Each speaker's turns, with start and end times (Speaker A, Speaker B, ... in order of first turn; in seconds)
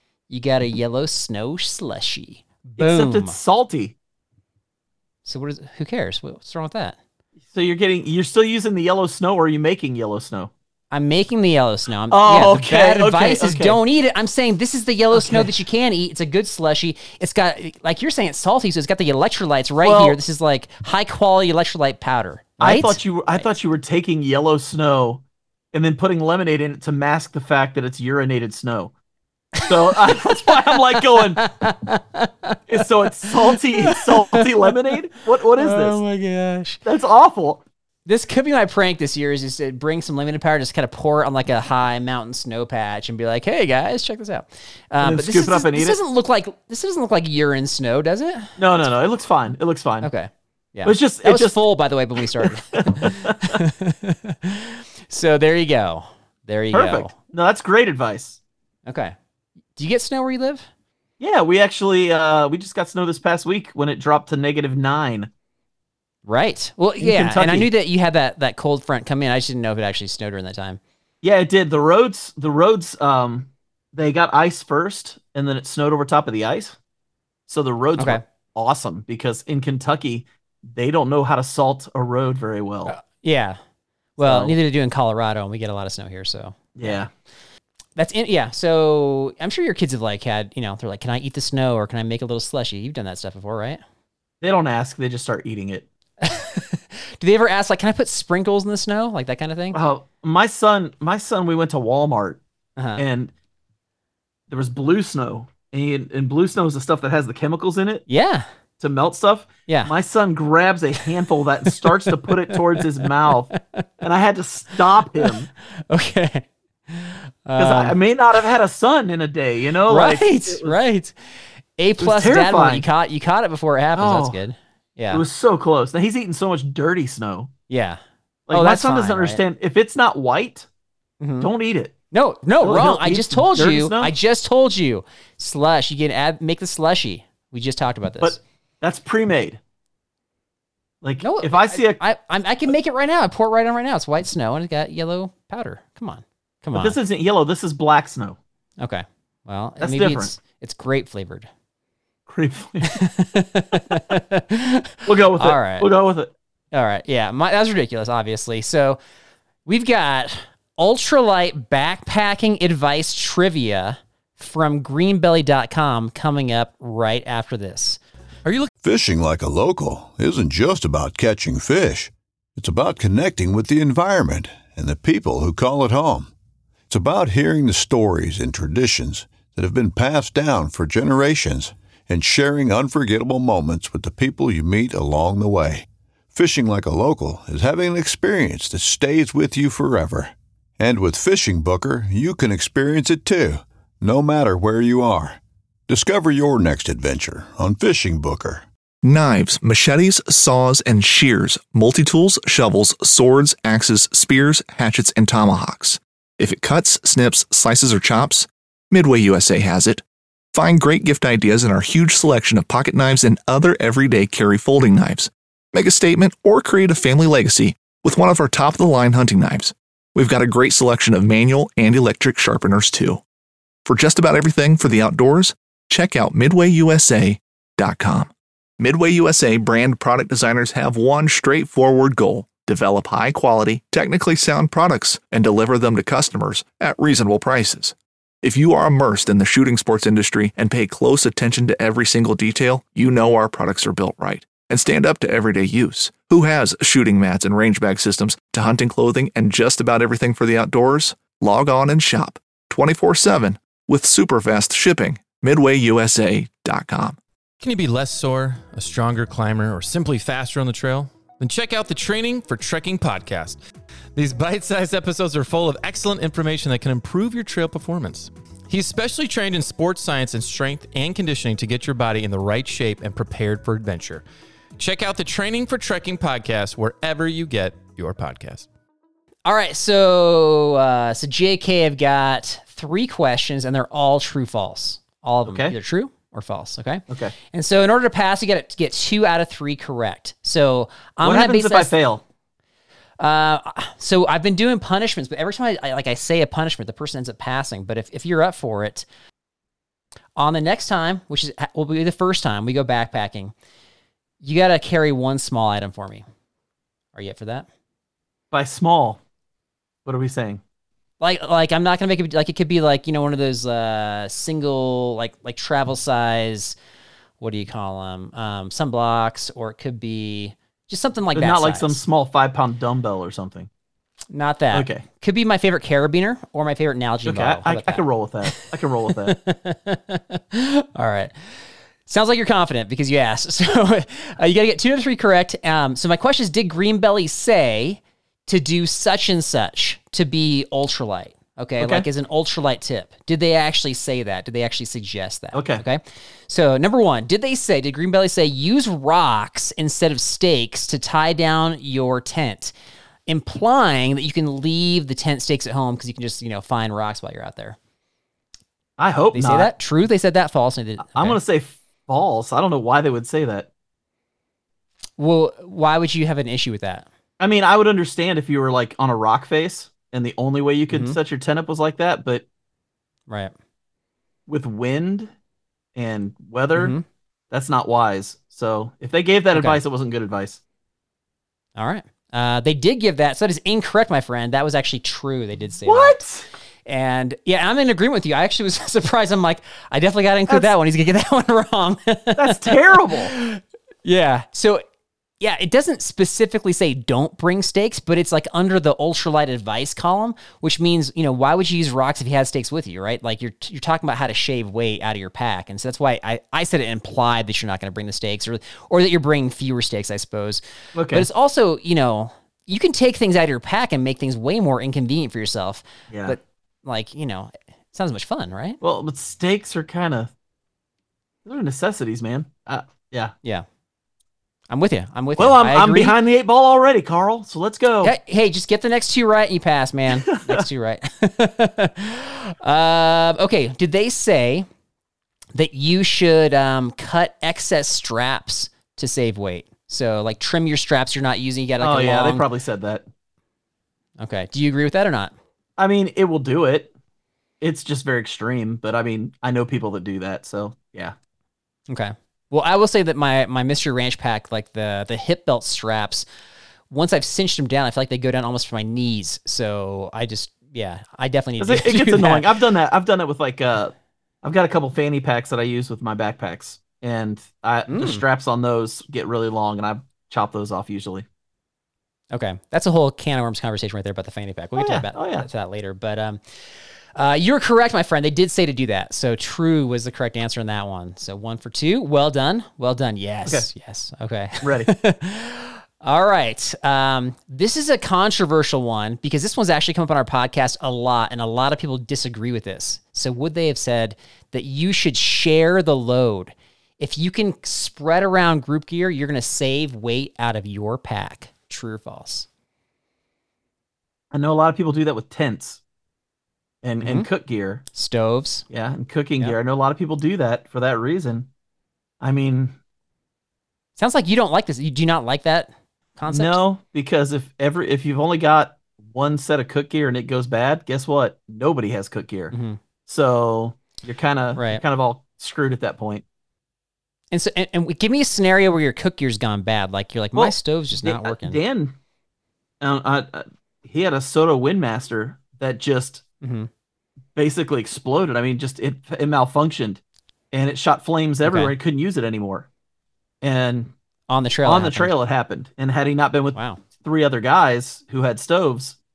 Speaker A: 0.3-3.4, 5.3-7.0, 10.9-23.6, 29.6-34.6, 35.6-36.8, 38.1-48.6, 50.0-57.1, 58.9-59.1, 59.8-60.7, 66.3-70.8, 78.0-78.2, 82.8-83.6, 84.2-87.0, 88.0-93.8, 96.2-99.8, 102.8-103.0, 108.1-108.5, 109.7-109.9, 111.7-113.8, 115.9-118.0, 119.9-125.2, 127.7-129.4, 131.2-131.5, 132.1-138.4, 141.2-147.0, 148.8-151.5, 152.9-155.9, 156.7-159.0, 159.7-168.0, 279.5-291.9, 293.2-299.1, 300.4-303.5, 304.4-306.2, 307.1-307.7, 311.2-316.8, 317.4-322.0, 324.3-328.7, 329.3-331.3, 332.1-352.7, 353.3-357.8, 359.3-361.4, 365.2-367.1, 370.9-371.2, 376.8-377.1, 379.5-379.8, 381.8-386.2, 386.9-394.8, 395.4-418.8, 424.7-426.2, 428.0-434.7, 435.6-442.4, 444.2-445.3, 451.9-456.3, 456.9-462.5, 467.9-468.2, 472.3-502.5, 507.0-507.3, 507.9-508.6, 514.0-516.6, 522.5-522.8, 524.5-524.8, 527.3-531.6, 536.4-536.7, 541.5-541.8, 544.3-545.2, 546.5-546.8
Speaker B: 2.8-4.0, 7.5-10.5, 12.1-13.8, 15.1-15.5, 19.8-20.2, 22.6-28.9, 29.7-31.4, 32.7-36.0, 36.9-37.6, 45.0-46.0, 48.6-50.1, 50.8-51.6, 52.2-53.6, 56.7-58.4, 61.2-65.3, 67.0-67.7, 71.2-76.8, 77.5-82.9, 84.2-84.6, 86.8-87.1, 94.4-95.9, 99.7-102.4, 103.0-103.3, 104.5-108.0, 108.8-115.5, 117.6-120.8, 122.0-122.8, 124.0-124.4, 125.1-127.5, 128.5-130.7, 131.4-131.9, 132.6-134.1, 138.2-139.6, 141.0-142.0, 146.7-148.4, 149.8-150.3, 152.3-153.0, 155.1-156.3, 285.4-285.8, 287.1-287.4, 291.2-292.2, 308.5-309.2, 310.1-310.6, 321.3-323.7, 324.7-325.1, 327.2-329.4, 341.8-342.1, 345.5-345.8, 359.0-359.7, 361.1-363.7, 367.4-372.4, 374.5-375.3, 375.9-376.9, 377.5-380.6, 385.9-386.5, 392.4-393.3, 410.9-411.3, 416.1-416.4, 418.8-420.3, 421.4-423.3, 425.4-428.1, 430.1-430.6, 441.8-443.1, 445.8-446.9, 447.6-451.1, 461.6-471.3, 474.8-475.5, 484.6-484.9, 504.3-505.8, 506.8-507.8, 508.7-511.5, 512.2-512.8, 516.3-522.5, 523.1-526.2, 530.3-532.0, 532.8-536.2, 537.4-540.0, 540.5-542.7, 543.4-543.9, 544.6-549.0
Speaker C: 168.4-168.7, 257.6-263.6, 264.2-274.2, 274.8-278.7
Speaker D: 168.8-176.3, 176.9-198.6
Speaker E: 199.0-210.0, 210.5-223.2, 223.9-257.2